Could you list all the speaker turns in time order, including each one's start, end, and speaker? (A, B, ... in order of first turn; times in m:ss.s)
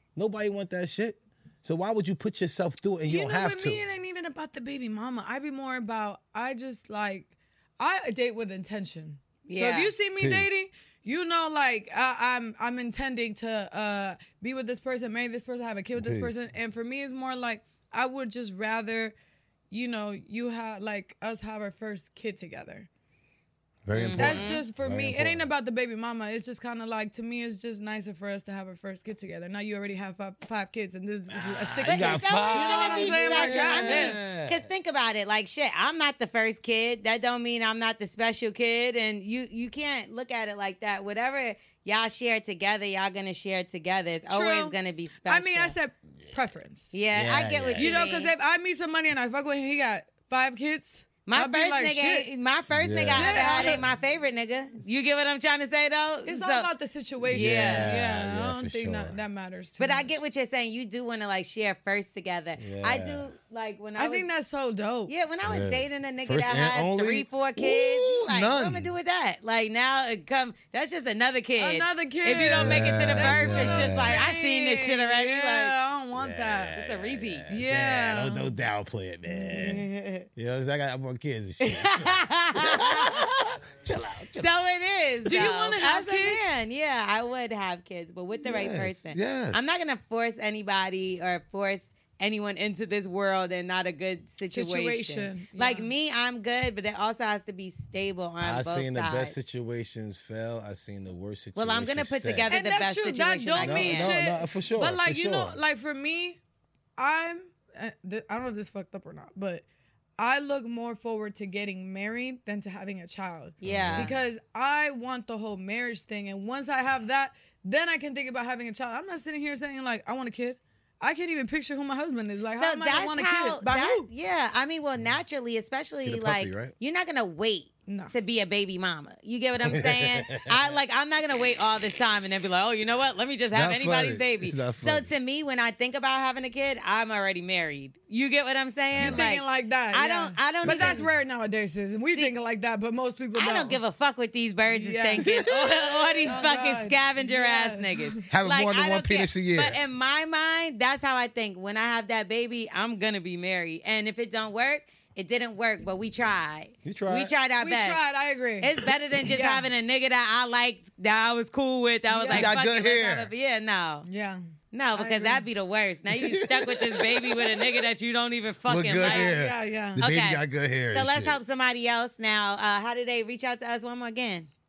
0:00.2-0:03.8 A
0:03.1-0:19.1 B
0:09.4-0:09.9 C
0:10.2-0:10.6 A
0:15.9-0:16.3 A
0:19.7-0:22.9 B
0:23.8-0:25.5 A
0:23.9-0:24.6 C
0:24.1-0:34.2 B
0:31.3-0:34.7 A
0:31.8-0:45.7 C
0:44.3-0:46.9 B
0:46.9-0:48.3 C
0:47.1-0:48.0 A
0:47.8-0:52.3 B
0:51.2-0:56.7 C
0:52.7-0:53.9 A
0:53.2-0:53.8 B
0:56.2-1:00.1 B
0:57.3-0:57.9 C
0:57.3-0:59.2 A
0:59.8-1:04.3 C
1:02.6-1:03.3 A
1:04.0-1:05.1 B
1:05.1-1:15.7 C
1:05.4-1:08.9 A
1:11.6-1:16.8 B
1:12.4-1:14.2 A
1:16.1-1:19.8 A
1:16.7-1:17.5 C
1:17.5-1:18.5 B
1:19.5-1:20.3 C
1:20.3-1:24.6 A
1:21.6-1:23.2 C
1:24.4-1:39.3 C
1:25.2-1:26.4 B
1:28.4-1:30.0 A
1:34.4-1:35.9 B
1:38.4-1:42.6 A
1:41.6-1:44.1 C
1:42.5-1:46.4 B
1:43.6-1:45.6 A
1:47.0-1:49.6 B
1:50.2-2:04.1 B
1:53.6-1:54.1 C
1:53.6-1:54.1 A
2:02.6-2:21.1 C
2:06.0-2:06.7 A
2:07.9-2:08.1 B
2:09.6-2:10.5 A
2:13.4-2:15.1 A
2:18.9-2:19.2 A
2:19.0-2:23.8 B
2:20.6-2:21.0 A
2:22.1-2:22.3 C
2:23.3-2:38.0 C
2:24.7-2:25.3 B
2:25.2-2:26.4 A
2:26.2-2:28.2 B
2:28.3-2:29.8 A
2:36.8-2:37.3 A
2:37.6-2:38.7 B
2:38.6-2:44.0 C
2:39.3-2:39.7 B
2:42.1-2:42.5 B
2:42.3-2:43.3 A
2:44.0-2:45.4 B
2:44.7-2:49.3 C
2:46.1-2:47.8 A
2:48.6-2:51.4 A
2:49.0-2:50.0 B
2:50.0-2:54.5 C